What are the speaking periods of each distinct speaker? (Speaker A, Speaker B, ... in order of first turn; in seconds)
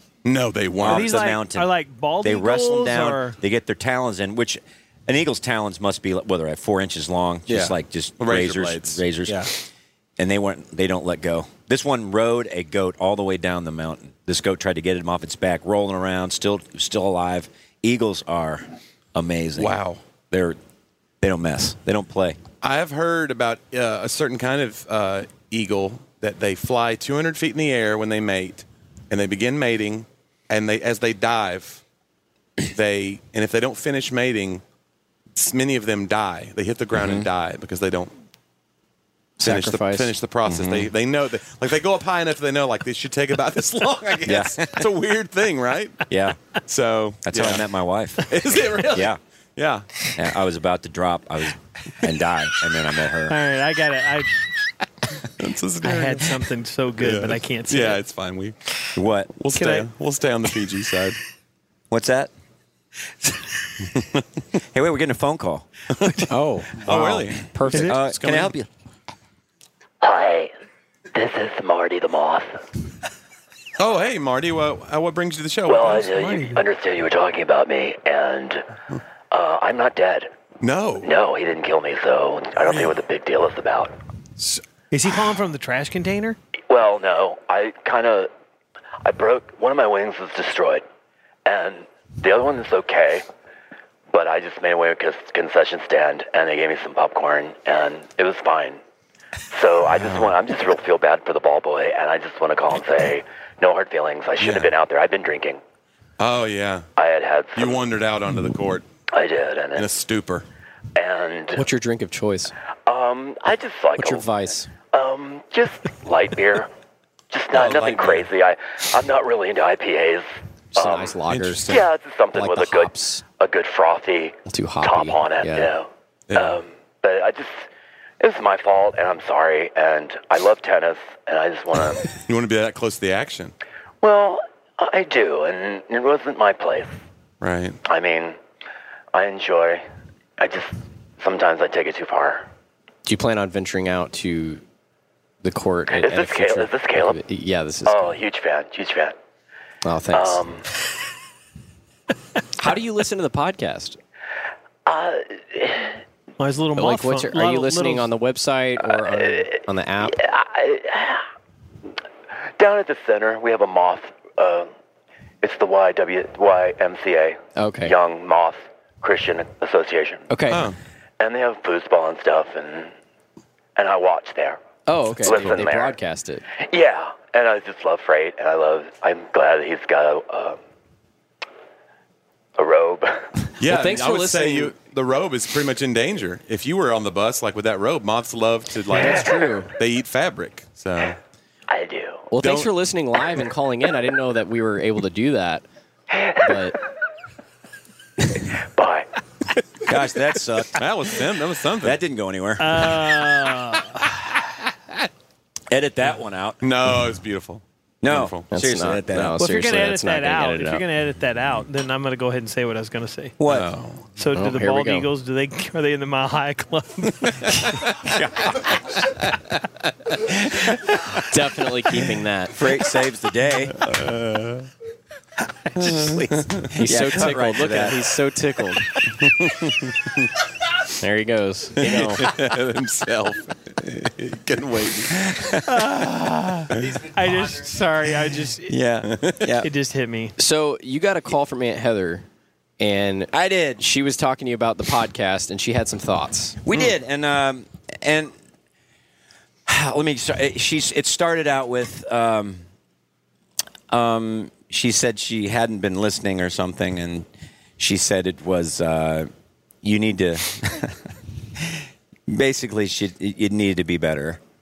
Speaker A: 0.2-1.1, 7.5-9.5, 19.6-20.0, 22.6-31.8, 32.7-34.6, 35.3-38.1, 39.4-46.0, 46.6-47.6, 48.2-49.9, 55.4-56.4, 57.0-58.5, 59.4-61.2, 63.9-64.2, 66.0-66.2, 66.8-68.5, 73.8-76.1, 80.6-81.1, 82.7-82.9, 100.0-100.3, 104.4-104.7, 106.2-106.9, 107.5-108.8, 109.7-110.4, 117.5-118.3, 121.3-121.9, 126.3-126.6, 132.2-133.5, 137.4-137.8, 170.5-170.8, 175.2-175.6, 183.6-191.2, 200.7-202.0, 206.6-208.4, 213.4-214.1, 223.8-224.6, 225.8-226.7, 229.2-230.3, 231.8-235.3, 236.7-237.0, 239.0-239.4
Speaker B: 0.8-1.7, 2.2-9.5, 10.2-19.8, 20.3-20.6, 21.2-22.4, 36.9-37.3, 40.5-40.9, 44.2-44.9, 46.1-46.4, 47.2-48.3, 48.9-49.2, 50.1-53.4, 59.0-59.3, 61.9-62.3, 64.7-65.7, 66.8-68.7, 199.8-200.7, 201.8-202.9, 205.7-206.6, 208.0-209.3, 213.4-213.7, 218.0-219.2, 220.2-221.2, 222.5-223.8, 225.8-228.0, 231.8-232.2, 235.1-236.7, 238.7-239.7, 243.3-243.8, 246.6-248.3, 249.7-252.6, 253.9-257.3, 257.8-259.3, 259.8-261.1, 261.6-264.4
Speaker C: 0.8-3.4, 53.3-54.3, 55.8-58.0, 59.5-59.9, 67.7-68.0, 76.1-76.6, 84.4-86.4, 156.4-158.1, 202.6-204.0, 209.4-213.4, 214.1-217.6, 235.7-238.8, 239.5-240.3
Speaker D: 39.4-40.1, 66.3-68.0, 111.5-112.5, 114.0-114.7, 120.7-121.8, 122.3-123.2, 124.5-125.7, 143.1-144.6, 145.4-148.2, 149.8-150.4, 152.6-154.0, 156.8-160.2, 167.6-167.9, 170.3-170.7, 174.8-176.4, 183.6-184.7, 188.9-189.7, 192.3-195.6, 196.4-196.8, 208.5-210.8, 214.3-215.1, 221.3-222.6, 226.8-228.9, 231.0-232.3, 240.4-242.3, 242.8-246.6
Speaker E: 70.0-70.5, 71.1-72.6, 75.7-78.7, 79.3-80.3, 81.0-83.9, 86.7-88.3, 89.0-90.8, 91.4-93.2, 94.1-98.8, 99.5-105.6, 107.0-107.8, 109.1-109.9, 111.0-111.6, 112.9-114.3, 114.9-116.7, 117.3-127.6, 128.2-132.2, 134.0-136.9, 137.8-138.4, 139.1-139.8, 140.4-142.5, 145.9-147.2, 147.8-149.1, 150.1-150.7, 154.8-156.0, 159.1-159.5, 160.0-161.2, 162.6-164.7, 165.4-170.3, 171.2-172.9, 173.8-174.6, 175.2-175.9, 176.6-180.6, 182.6-183.4, 191.7-192.3, 196.1-196.7, 198.4-199.1